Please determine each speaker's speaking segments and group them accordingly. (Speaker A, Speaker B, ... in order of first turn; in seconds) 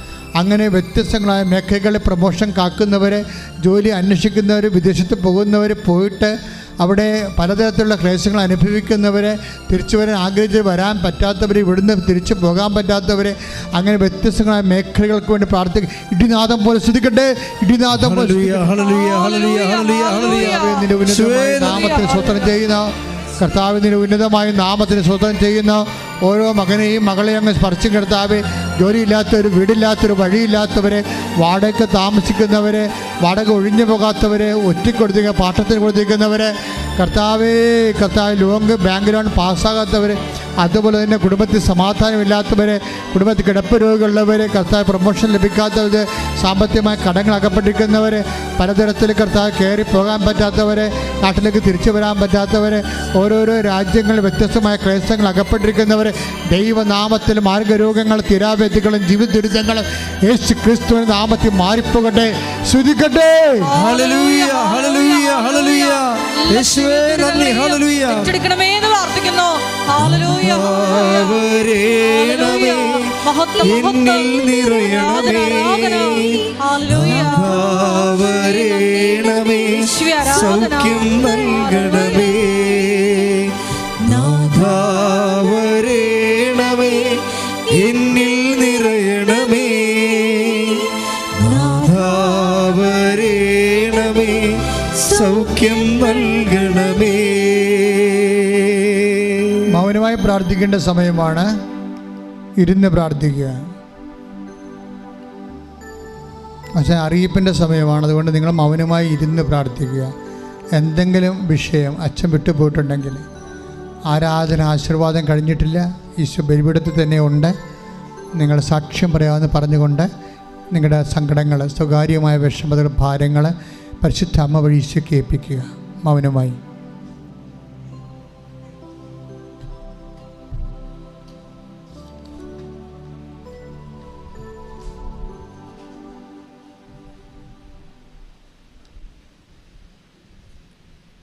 Speaker A: 0.4-18.7, 20.2-63.7, 99.7-101.5, 102.6-103.7, 106.8-110.1, 110.7-113.2, 114.1-117.5, 118.4-120.1, 120.7-126.6
Speaker B: 17.9-21.7, 63.7-68.3, 69.9-99.6
Speaker C: 18.8-20.9, 21.6-22.6, 63.6-71.4, 72.1-77.8, 78.6-82.2